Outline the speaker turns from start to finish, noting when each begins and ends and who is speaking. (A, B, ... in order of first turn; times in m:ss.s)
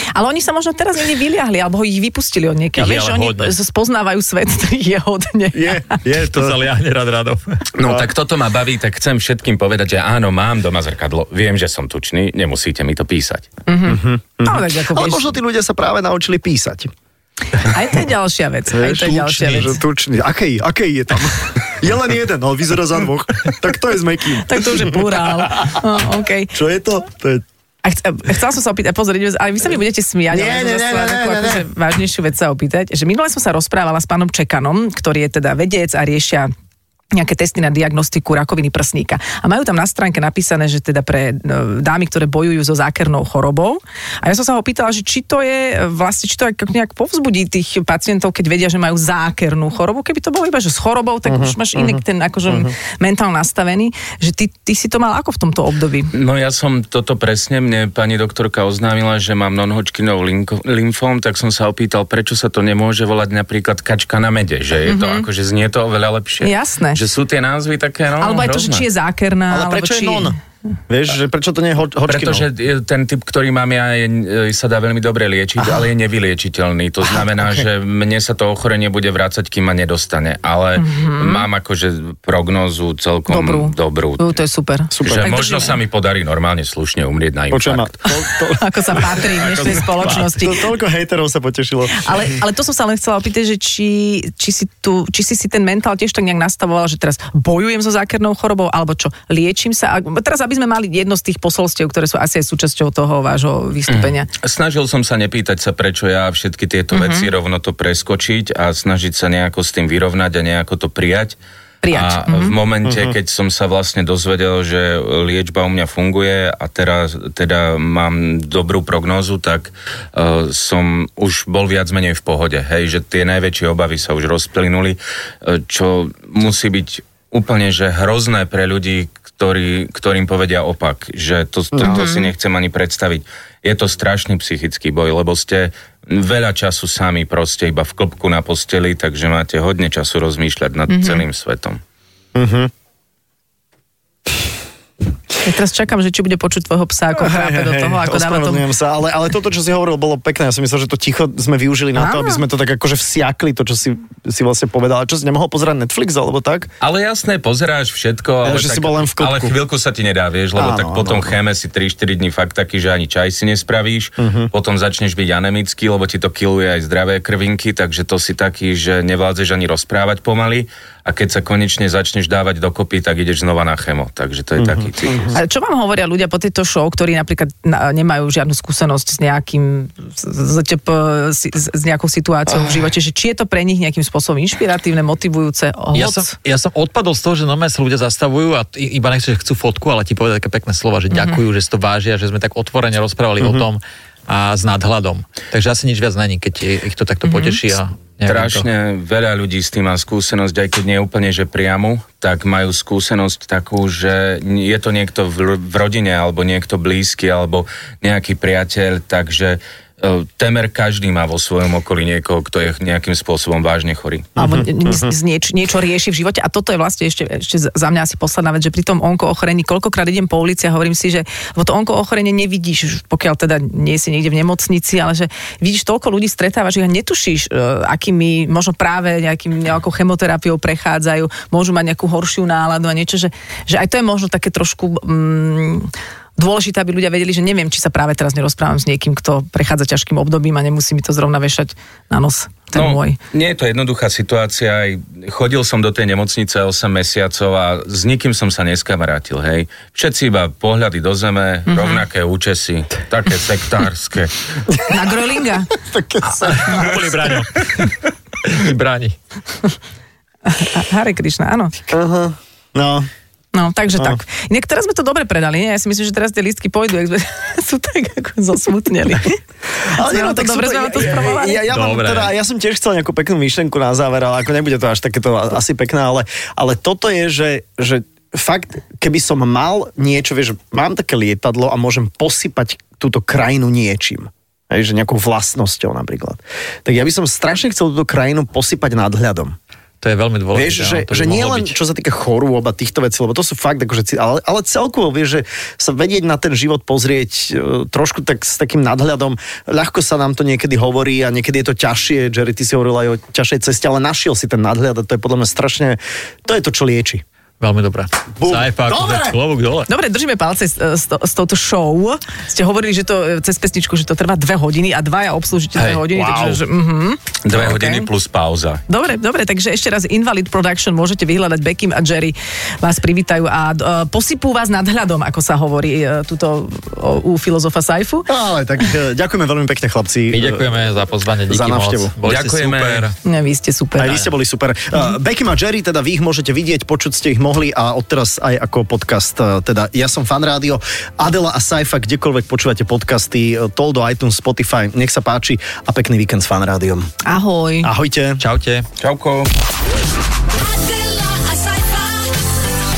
0:00.1-0:06.0 A
0:02.8-0:03.6 B
0:05.5-0:06.6 C
0:06.2-0:07.7 B
0:07.8-0:13.5 D
0:07.8-0:08.1 C
0:13.7-0:15.4 A
0:13.9-0:16.9 C
0:17.6-0:19.8 A
0:18.7-0:25.8 C
0:24.4-0:26.6 A
0:26.5-0:27.4 C
0:27.8-0:36.5 A
0:30.3-0:31.6 C
0:37.1-0:56.1 A
0:51.3-0:52.7 C
0:56.1-1:08.9 D
1:04.9-1:05.3 A
1:06.4-1:07.0 A
1:08.2-1:10.4 A
1:09.5-1:10.4 C
1:10.9-1:12.5 C
1:12.1-1:24.4 D
1:15.6-1:15.9 C
1:17.1-1:17.6 C
1:20.8-1:21.5 A
1:23.3-1:25.8 A
1:24.9-1:25.3 C
1:25.0-1:27.9 D
1:27.5-1:32.1 C
1:28.5-1:30.7 A
1:30.0-1:30.2 B
1:31.9-1:44.3 A
1:43.9-1:51.4 D
1:46.9-1:47.3 A
1:51.8-1:52.6 A
1:51.9-2:21.8 D
1:52.8-1:53.2 C
2:11.8-2:12.1 C
2:11.8-2:12.3 A
2:20.9-2:21.2 A
2:22.4-2:22.7 C
2:25.4-2:28.6 A
2:27.2-2:36.7 C
2:32.0-2:32.4 A
2:36.8-2:55.4 D
2:38.4-2:39.6 C
2:40.6-2:41.4 C
2:44.2-2:44.5 C
2:54.6-2:55.4 C
2:55.3-3:06.4 A
3:06.0-3:18.7 B
3:11.1-3:11.4 A
3:17.2-3:17.6 A
3:18.3-3:34.3 D
3:34.4-3:35.1 C
3:34.4-4:03.2 A
4:02.7-4:14.6 D
4:11.7-4:12.0 A
4:14.7-4:15.0 C
4:14.9-4:15.7 A
4:15.8-4:17.3 C
4:16.4-4:19.2 B
4:20.5-4:21.8 A
4:21.9-4:23.1 C
4:23.5-4:29.4 A
4:29.8-4:49.6 C
4:30.0-4:31.6 A
4:31.7-4:32.3 B
4:50.0-4:51.8 B
4:50.5-5:07.2 C
5:07.6-5:09.9 B
5:08.4-5:09.4 C
5:09.9-5:18.1 A
5:16.1-5:16.6 C
5:17.4-5:18.8 D
5:18.9-5:28.3 A
5:28.3-5:30.7 C
5:30.3-5:33.2 B
5:31.5-5:32.1 C
5:32.2-5:33.1 D
5:33.2-5:34.3 A
5:34.0-5:47.1 C
5:47.2-5:47.9 A
5:47.8-5:48.4 C
5:48.4-5:48.9 B
5:49.0-5:49.5 D
5:50.4-5:52.4 E